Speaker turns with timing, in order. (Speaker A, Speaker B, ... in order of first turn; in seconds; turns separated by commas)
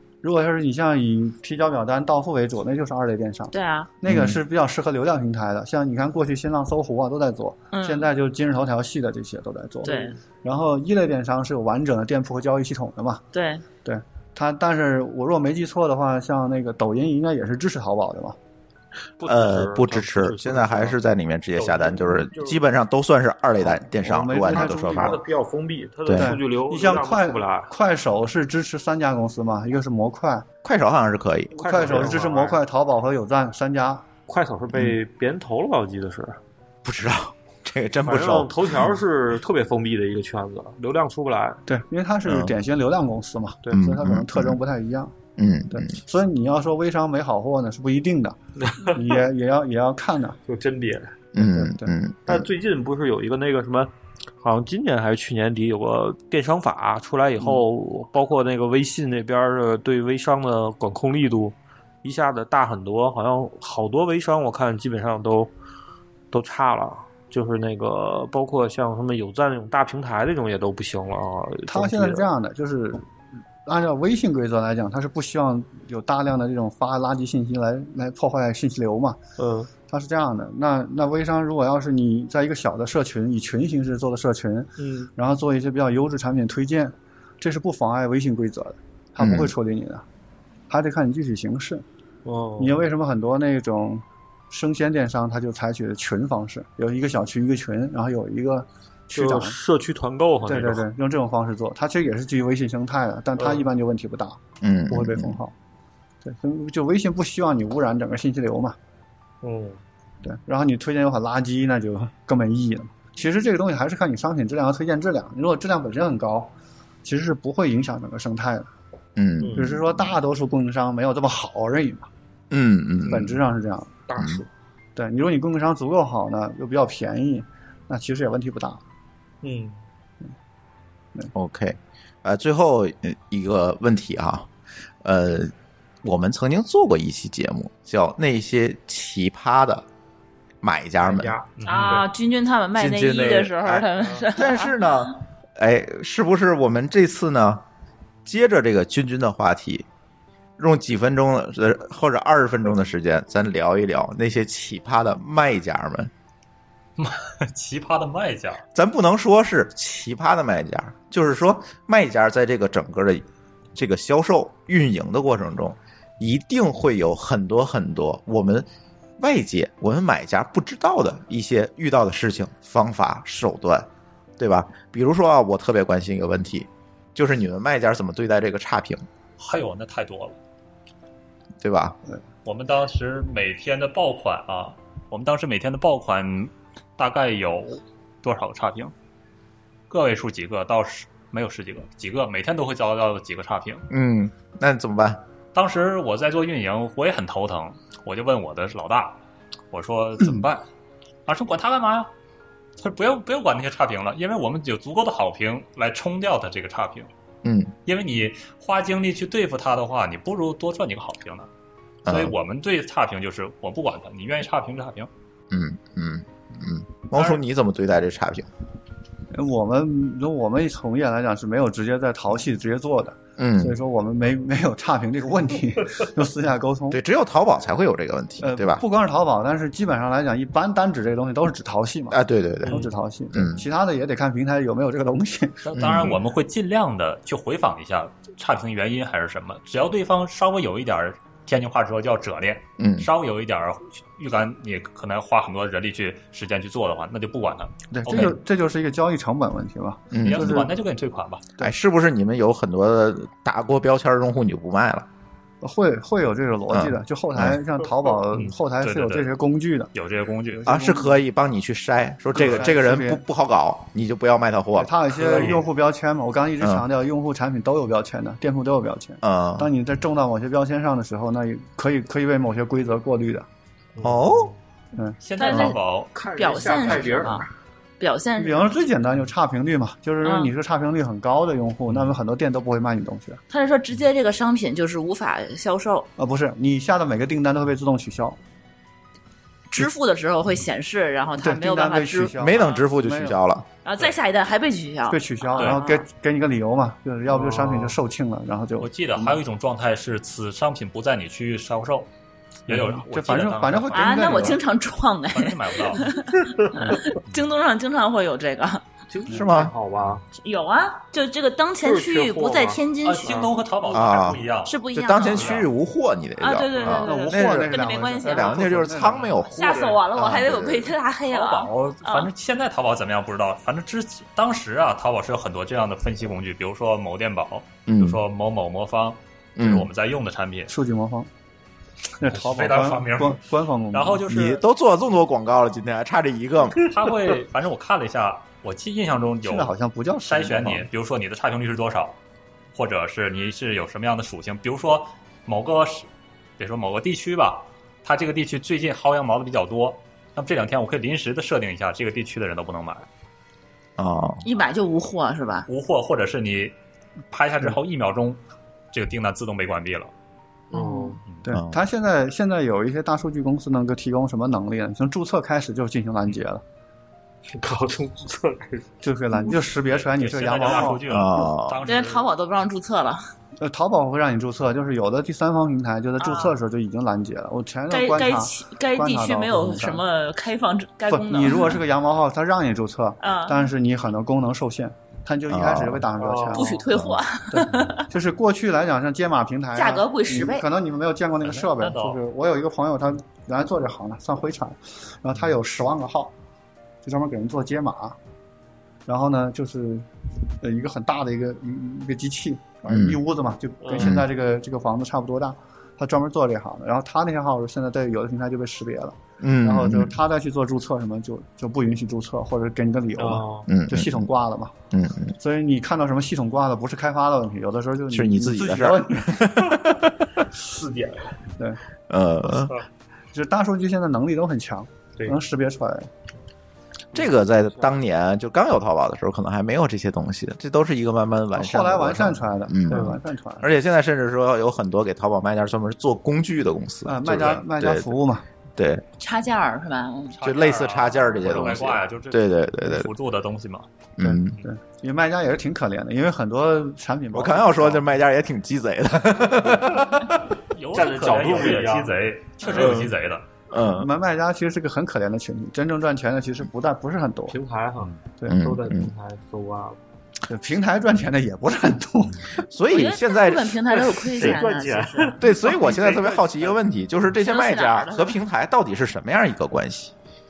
Speaker A: 0.2-13.2, Speaker B: 3.5-3.9, Speaker C: 4.0-4.4, Speaker B: 7.7-8.1, Speaker B: 9.8-10.2, Speaker B: 13.3-13.6, Speaker A: 13.8-18.4, Speaker D: 19.2-21.0, Speaker C: 19.2-25.2, Speaker D: 21.8-22.4, Speaker A: 23.6-25.2, Speaker E: 24.8-26.0, Speaker D: 25.8-27.7, Speaker C: 26.1-26.4, Speaker A: 26.1-30.5, Speaker C: 30.6-32.1, Speaker D: 31.6-32.5, Speaker A: 31.6-34.1, Speaker E: 31.7-31.9, Speaker D: 34.3-36.4, Speaker C: 36.8-38.9, Speaker D: 38.0-41.6, Speaker A: 41.7-45.1, Speaker C: 42.2-42.5, Speaker C: 43.7-44.6, Speaker C: 45.4-46.0, Speaker A: 45.7-50.4, Speaker E: 50.5-51.0, Speaker C: 51.3-52.5, Speaker A: 51.4-51.9, Speaker D: 52.3-65.5, Speaker D: 66.3-72.3, Speaker A: 71.7-73.1, Speaker A: 73.7-79.2, Speaker D: 79.4-79.7, Speaker A: 79.8-90.0, Speaker D: 84.8-85.1, Speaker C: 89.2-89.5, Speaker A: 90.7-91.8, Speaker D: 92.2-92.8, Speaker A: 92.6-99.6, Speaker D: 99.1-100.8, Speaker A: 100.4-105.5, Speaker C: 104.6-105.4, Speaker A: 106.2-108.8, Speaker D: 109.4-109.7, Speaker A: 110.2-116.5, Speaker A: 117.0-118.7, Speaker C: 119.2-119.6, Speaker D: 119.4-119.8, Speaker A: 119.5-122.1, Speaker C: 122.5-123.4, Speaker A: 123.1-124.0, Speaker E: 124.1-124.4, Speaker C: 124.2-124.4, Speaker A: 125.0-128.8, Speaker C: 131.3-134.5, Speaker C: 135.0-135.5, Speaker C: 136.0-139.8, Speaker C: 140.6-141.3, Speaker E: 141.0-142.1, Speaker F: 141.6-142.0, Speaker B: 141.7-144.9, Speaker C: 142.8-147.6, Speaker C: 148.2-149.9, Speaker C: 150.6-156.1, Speaker F: 157.0-158.6, Speaker C: 158.7-168.7, Speaker C: 169.2-173.9, Speaker C: 174.4-179.0, Speaker F: 179.4-180.4, Speaker C: 181.6-182.0, Speaker F: 182.4-188.9, Speaker F: 189.9-193.9, Speaker C: 193.9-195.2, Speaker F: 195.5-199.2, Speaker F: 199.7-200.7, Speaker F: 201.3-202.1, Speaker F: 202.8-207.1, Speaker C: 207.4-207.7, Speaker F: 207.9-211.5, Speaker C: 212.1-212.3, Speaker F: 212.1-215.1, Speaker C: 215.5-218.5, Speaker F: 217.1-217.4, Speaker A: 219.3-227.0, Speaker C: 223.4-223.8, Speaker C: 226.9-228.8, Speaker A: 228.4-235.6, Speaker C: 232.1-233.6, Speaker F: 235.6-248.3, Speaker C: 235.8-236.2, Speaker C: 242.8-243.1, Speaker C: 248.0-248.4, Speaker A: 248.0-250.7, Speaker C: 250.1-250.7, Speaker F: 250.2-251.4, Speaker C: 251.6-255.1, Speaker A: 255.6-259.9, Speaker C: 256.7-257.6, Speaker F: 258.3-259.3, Speaker F: 259.9-260.6, Speaker A: 260.5-261.2, Speaker C: 260.7-264.9, Speaker A: 262.3-263.2, Speaker F: 262.4-262.7, Speaker A: 264.7-273.4, Speaker F: 265.3-265.6, Speaker C: 266.6-266.9, Speaker C: 269.2-269.7, Speaker C: 274.0-274.5, Speaker A: 274.9-275.8, Speaker F: 275.2-276.1, Speaker B: 275.4-275.8, Speaker E: 276.1-277.5, Speaker B: 276.3-277.5, Speaker B: 278.0-278.8, Speaker A: 278.4-283.4, Speaker B: 280.2-280.5, Speaker B: 283.5-286.1, Speaker A: 286.2-288.4, Speaker B: 289.7-292.8, Speaker A: 291.4-293.4, Speaker C: 292.3-293.6, Speaker B: 293.8-296.1, Speaker A: 295.1-299.4, Speaker F: 295.6-295.8, Speaker F: 298.8-302.1, Speaker F: 302.7-304.6, Speaker A: 302.7-304.6, Speaker B: 303.9-308.9, Speaker F: 305.3-306.1, Speaker D: 309.1-310.2, Speaker C: 309.3-309.7, Speaker B: 310.3-313.5, Speaker D: 311.8-312.8, Speaker F: 313.0-315.7, Speaker C: 313.9-320.9, Speaker B: 314.6-315.6, Speaker B: 316.4-318.7, Speaker A: 316.9-319.4, Speaker B: 319.5-322.3, Speaker F: 321.3-330.7, Speaker C: 327.9-328.2, Speaker C: 329.6-329.9, Speaker A: 330.7-331.3, Speaker A: 332.2-334.3, Speaker F: 332.3-334.6, Speaker C: 334.3-336.9, Speaker F: 336.8-339.7, Speaker A: 339.4-340.9, Speaker F: 340.3-342.2, Speaker F: 342.7-353.1, Speaker C: 354.0-354.4, Speaker B: 354.4-355.7, Speaker F: 355.7-356.7, Speaker F: 357.3-358.4, Speaker F: 358.9-360.1, Speaker B: 360.7-361.2, Speaker E: 360.8-361.1, Speaker A: 361.4-366.6, Speaker C: 361.5-361.8, Speaker E: 367.5-368.9, Speaker A: 369.0-371.0, Speaker F: 369.8-372.3, Speaker E: 370.6-371.0, Speaker C: 371.1-371.8, Speaker B: 371.9-373.2, Speaker A: 373.6-380.0, Speaker B: 376.2-376.6, Speaker B: 377.9-381.8, Speaker A: 381.1-386.8, Speaker B: 383.2-383.7, Speaker C: 385.5-386.1, Speaker E: 386.3-386.8, Speaker B: 386.5-388.1, Speaker C: 386.9-387.2, Speaker A: 387.5-396.3, Speaker B: 389.7-390.7, Speaker F: 391.4-392.2, Speaker A: 397.0-398.1, Speaker A: 399.1-400.1, Speaker A: 400.6-414.7, Speaker C: 402.9-403.2, Speaker D: 403.8-404.1, Speaker C: 404.0-404.3, Speaker C: 409.4-410.2, Speaker D: 413.2-413.7, Speaker C: 413.7-414.3, Speaker C: 414.9-415.3, Speaker A: 415.4-419.6, Speaker C: 418.1-420.2, Speaker E: 420.6-421.4, Speaker C: 422.1-422.8, Speaker A: 423.3-426.1, Speaker C: 427.1-438.1, Speaker A: 431.5-433.7, Speaker D: 432.9-433.2, Speaker A: 437.1-438.4, Speaker C: 438.8-439.0, Speaker B: 439.2-440.4, Speaker F: 440.3-443.9, Speaker C: 440.4-443.1, Speaker C: 444.2-444.6, Speaker A: 444.2-448.1, Speaker C: 447.3-450.6, Speaker F: 450.7-453.4, Speaker D: 450.9-453.1, Speaker E: 451.2-452.0, Speaker C: 453.7-454.1, Speaker A: 453.8-457.6, Speaker E: 457.5-459.9, Speaker C: 458.5-459.1, Speaker A: 460.5-462.5, Speaker C: 462.6-463.9, Speaker B: 462.9-465.6, Speaker E: 464.3-466.7, Speaker C: 465.4-470.1, Speaker B: 467.4-468.4